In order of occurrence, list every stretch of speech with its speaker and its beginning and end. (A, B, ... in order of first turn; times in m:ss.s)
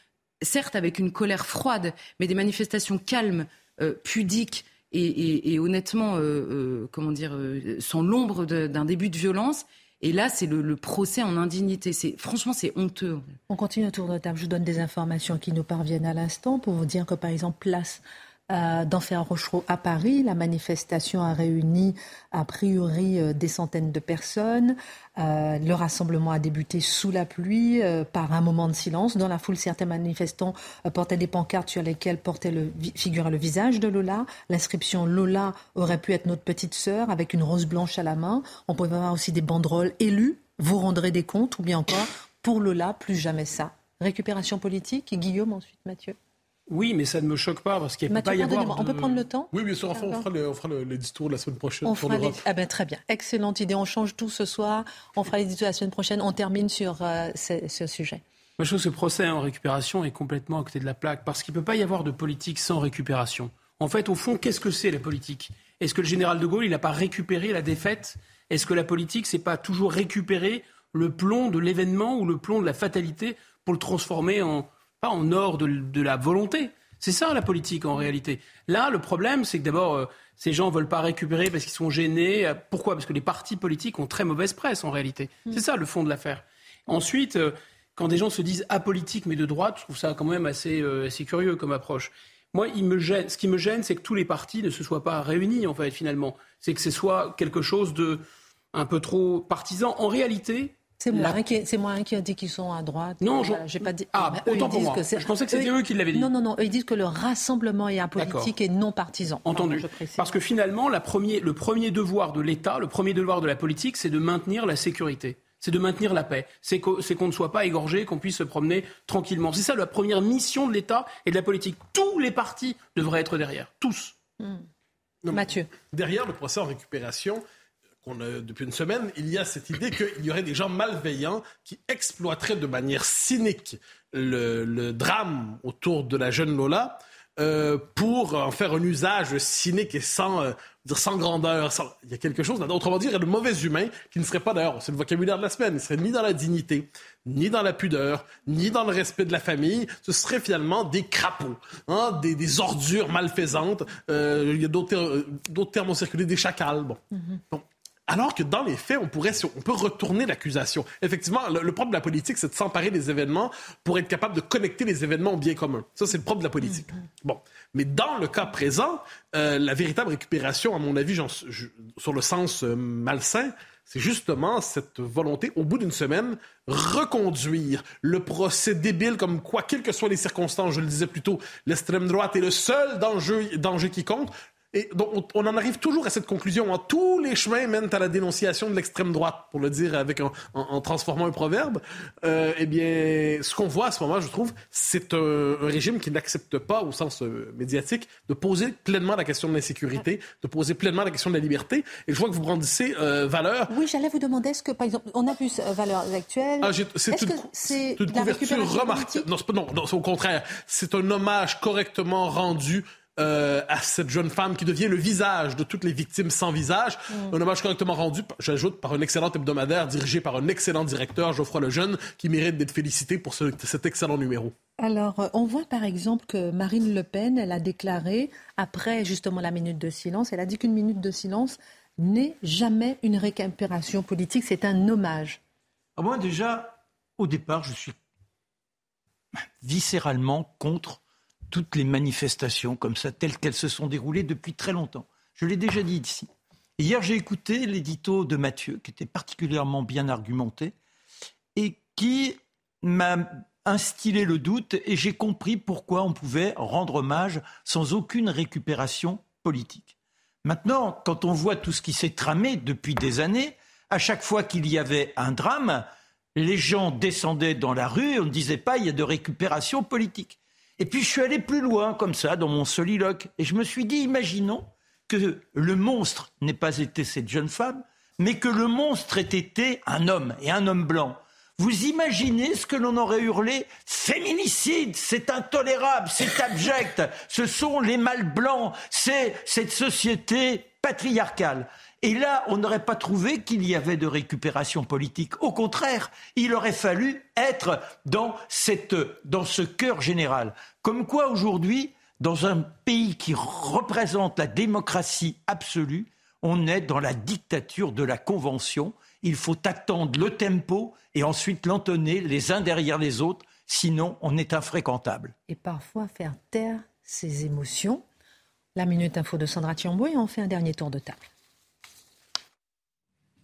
0:00.4-0:13.4 A
0:13.5-0:46.2 B
0:46.7-0:49.2 C
0:48.1-0:50.3 B
0:49.5-0:52.4 D
0:51.8-0:58.2 B
0:58.6-1:41.4 C
1:41.0-1:50.4 B
1:43.2-1:46.3 C
1:48.2-1:48.5 C
1:49.4-2:04.2 C
2:04.4-2:04.6 B
2:05.2-2:07.4 D
2:05.3-2:05.7 B
2:08.0-3:23.7 D
3:23.7-3:29.3 B
3:26.6-3:44.5 D
3:37.1-3:37.4 B
3:44.8-3:55.4 B
3:56.0-3:58.0 E
3:59.6-4:10.8 E
4:11.6-5:15.3 E
5:15.5-5:18.0 B
5:18.8-5:21.3 B